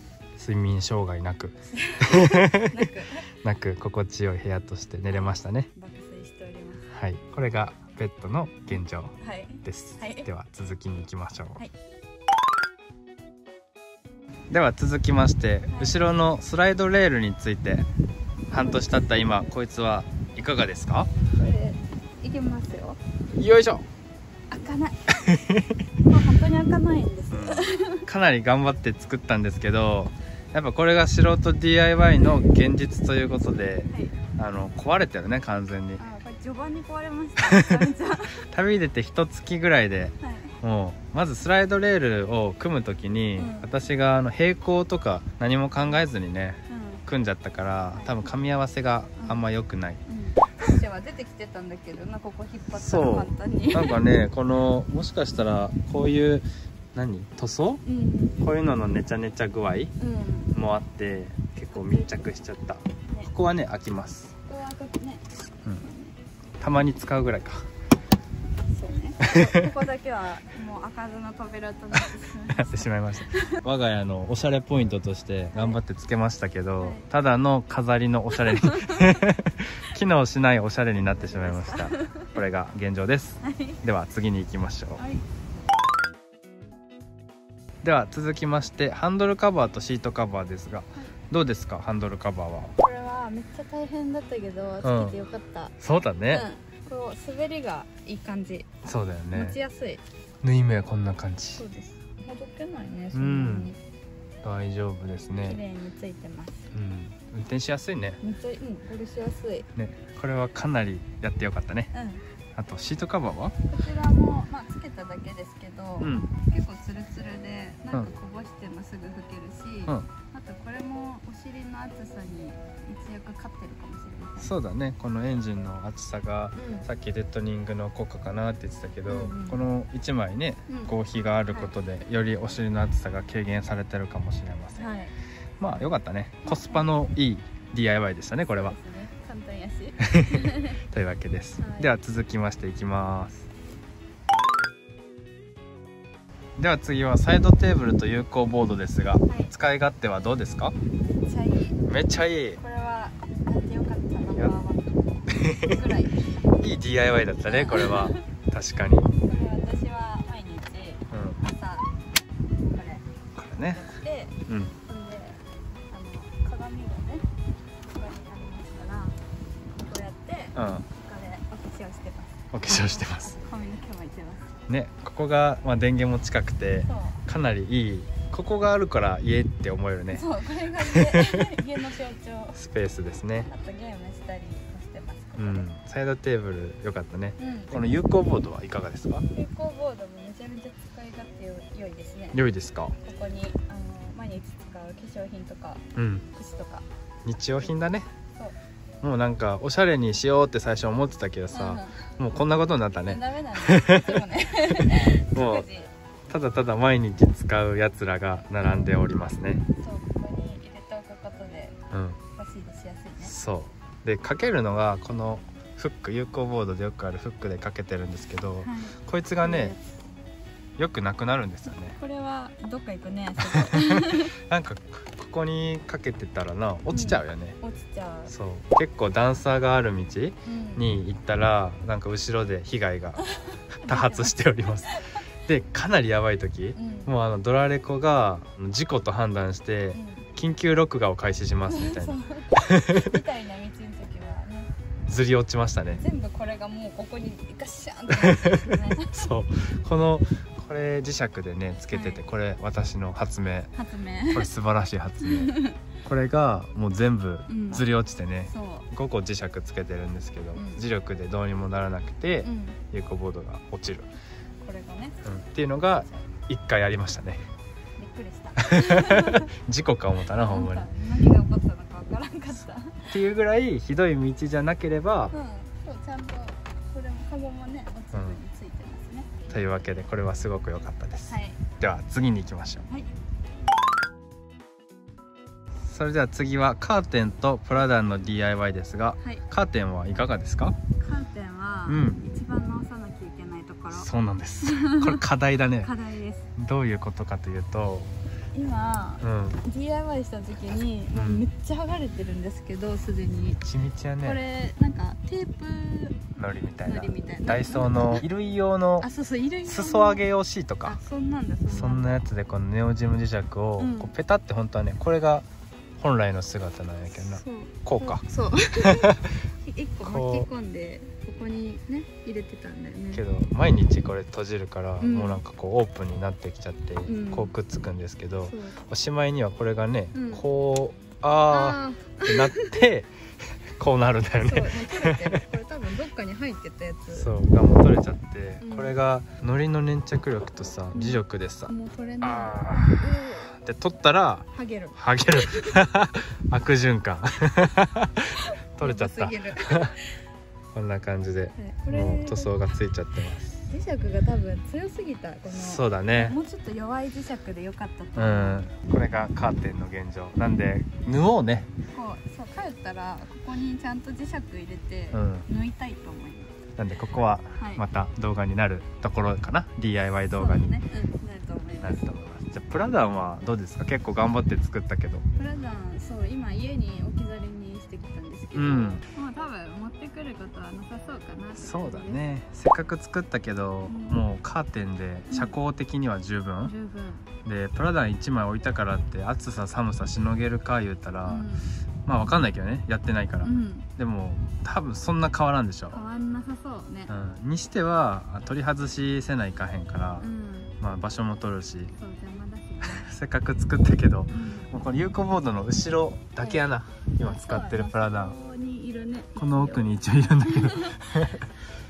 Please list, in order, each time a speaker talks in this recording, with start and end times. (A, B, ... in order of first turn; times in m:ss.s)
0:00.4-0:02.9 A
0:01.7-0:03.3 B
0:03.4-0:05.7 A
0:05.1-0:07.0 B
0:06.9-0:11.6 A
0:09.2-0:10.3 B
0:14.5-0:17.9 A
0:15.7-0:16.0 B
0:18.5-0:21.1 A
0:18.6-0:19.3 B
0:21.4-0:23.0 B
0:23.4-0:23.8 A
0:24.5-0:25.3 B
0:25.2-0:25.8 A
0:26.0-0:28.0 B
0:27.3-0:36.0 A
0:33.9-0:34.1 B
0:36.0-0:38.4 B
0:37.4-0:37.9 A
0:38.4-0:50.0 A
0:40.2-0:40.6 B
0:43.4-0:43.7 B
0:46.7-0:47.0 B
0:47.9-0:48.3 B
0:49.2-0:49.4 B
0:50.0-0:54.0 B
0:52.7-0:57.8 A
0:57.8-0:58.4 B
0:58.4-0:59.9 A
1:00.0-1:00.5 B
1:00.5-1:04.3 A
1:01.7-1:02.1 B
1:04.4-1:05.2 B
1:05.8-1:06.2 B
1:06.6-1:07.7 A
1:08.7-1:13.6 B
1:09.2-1:09.7 A
1:12.5-1:25.0 A
1:15.5-1:15.8 B
1:16.8-1:17.1 B
1:18.6-1:19.0 B
1:21.2-1:22.4 B
1:23.4-1:23.8 B
1:25.0-1:25.2 B
1:27.8-1:32.7 A
1:32.8-1:35.7 B
1:34.8-1:35.2 A
1:35.8-1:36.5 A
1:36.3-1:38.7 B
1:38.8-1:39.6 A
1:39.3-1:40.0 B
1:40.4-1:41.6 A
1:41.6-1:43.8 B
1:43.1-1:43.7 A
1:44.4-1:45.6 A
1:45.4-1:46.7 B
1:46.7-1:48.2 A
1:48.2-1:49.7 B
1:49.7-1:51.9 A
1:51.9-1:52.2 B
1:52.5-1:53.6 A
1:53.7-2:04.5 B
1:56.0-1:56.3 A
2:04.4-2:14.9 A
2:06.5-2:06.9 B
2:09.1-2:09.6 B
2:10.7-2:10.9 B
2:11.5-2:11.7 B
2:14.8-2:15.1 B
2:15.6-2:18.8 A
2:16.4-2:16.9 B
2:18.4-2:20.8 B
2:20.0-2:23.5 A
2:21.6-2:21.9 B
2:26.6-2:30.7 A
2:29.3-2:29.5 B
2:31.2-2:31.8 B
2:31.9-2:32.6 A
2:32.6-2:36.4 B
2:35.3-2:35.8 A
2:36.6-2:39.1 A
2:37.4-2:38.2 B
2:39.2-2:41.9 B
2:41.1-2:41.4 A
2:42.6-2:43.0 B
2:43.3-2:43.8 A
2:43.7-2:47.2 B
2:44.5-2:44.7 A
2:47.9-2:49.2 B
2:49.8-2:54.6 B
2:50.5-2:50.8 A
2:52.5-2:53.4 A
2:54.7-3:00.2 A
2:56.8-2:57.2 B
3:00.1-3:02.6 B
3:00.8-3:01.5 A
3:02.5-3:03.5 A
3:03.4-3:05.7 B
3:05.4-3:09.2 A
3:07.4-3:07.8 B
3:09.3-3:12.4 B
3:12.3-3:13.0 A
3:13.0-3:16.8 B
3:16.0-3:16.2 A
3:17.2-3:18.1 A
3:19.0-3:25.7 A
3:21.5-3:22.1 B
3:23.0-3:25.9 B
3:26.3-3:29.6 A
3:28.6-3:28.9 B
3:29.8-3:31.8 B
3:31.9-3:32.2 A
3:32.3-3:33.3 B
3:33.2-3:39.7 A
3:38.6-3:40.0 B
3:40.8-3:42.0 A
3:41.9-3:44.3 B
3:43.4-3:47.6 A
3:46.9-3:48.3 B
3:48.3-3:53.2 A
3:50.4-3:50.9 B
3:53.2-3:54.4 B
3:53.9-4:03.1 A
3:54.9-3:55.2 B
3:56.8-3:57.1 B
3:59.9-4:00.3 B
4:01.7-4:04.7 B
4:05.1-4:06.0 A
4:05.9-4:09.1 B
4:08.1-4:13.7 A
4:11.9-4:12.2 B
4:13.7-4:14.5 B
4:14.3-4:24.1 A
4:15.2-4:15.8 B
4:17.5-4:17.8 B
4:18.5-4:18.9 B
4:20.5-4:20.8 B
4:22.4-4:22.8 B
4:24.6-4:25.2 B
4:25.2-4:27.4 A
4:25.9-4:26.3 B
4:28.0-4:29.5 B
4:28.8-4:30.9 A
4:30.4-4:33.2 B
4:33.1-4:35.3 A
4:35.3-4:39.6 B
4:38.1-4:38.4 A
4:39.5-4:42.8 A
4:41.3-4:41.6 B
4:45.8-4:50.8 A
4:51.0-4:54.1 B
4:51.8-4:52.2 A
4:53.9-4:55.9 A
4:54.6-4:55.2 B
4:55.8-4:56.5 B
4:56.6-4:58.1 A
4:58.5-5:03.6 B
4:59.2-4:59.6 A
5:01.1-5:01.5 A
5:03.3-5:04.4 A
5:04.2-5:06.2 B
5:06.4-5:09.1 A
5:06.8-5:08.2 B
5:09.0-5:10.2 B
5:09.6-5:11.0 A
5:10.8-5:12.2 B
5:11.7-5:15.4 A
5:13.8-5:14.1 B
5:16.0-5:18.2 A
5:17.1-5:23.2 B
5:18.8-5:19.4 A
5:20.0-5:20.5 A
5:23.1-5:33.1 A
5:25.0-5:25.4 B
5:27.0-5:27.5 B
5:28.4-5:28.8 B
5:30.1-5:30.4 B
5:31.5-5:32.7 B
5:33.8-5:35.4 A
5:34.4-5:37.3 B
5:37.1-5:50.0 A
5:38.6-5:38.9 B
5:40.9-5:43.5 B
5:44.5-5:45.8 B
5:48.4-5:50.1 B
5:50.7-5:53.5 A
5:51.6-5:52.6 B
5:53.5-5:58.7 B
5:55.5-5:56.4 A
5:58.2-6:01.7 A
6:00.4-6:00.6 B
6:01.9-6:06.6 B
6:05.1-6:05.4 A
6:06.8-6:10.8 A
6:07.6-6:07.8 B
6:10.3-6:12.0 B
6:11.8-6:15.2 A
6:15.4-6:22.2 B
6:18.5-6:19.0 A
6:21.5-6:26.7 A
6:23.8-6:24.2 B
6:25.3-6:25.6 B
6:26.6-6:27.2 B
6:27.4-6:31.5 A
6:31.2-6:31.8 B
6:32.0-6:36.0 A
6:33.4-6:33.9 B
6:35.9-6:37.1 B
6:37.1-6:41.9 A
6:40.2-6:40.7 B
6:42.0-6:43.1 B
6:42.8-6:48.4 A
6:44.3-6:44.7 B
6:46.4-6:46.7 B
6:47.2-6:49.9 B
6:49.4-6:51.5 A
6:50.4-6:51.0 B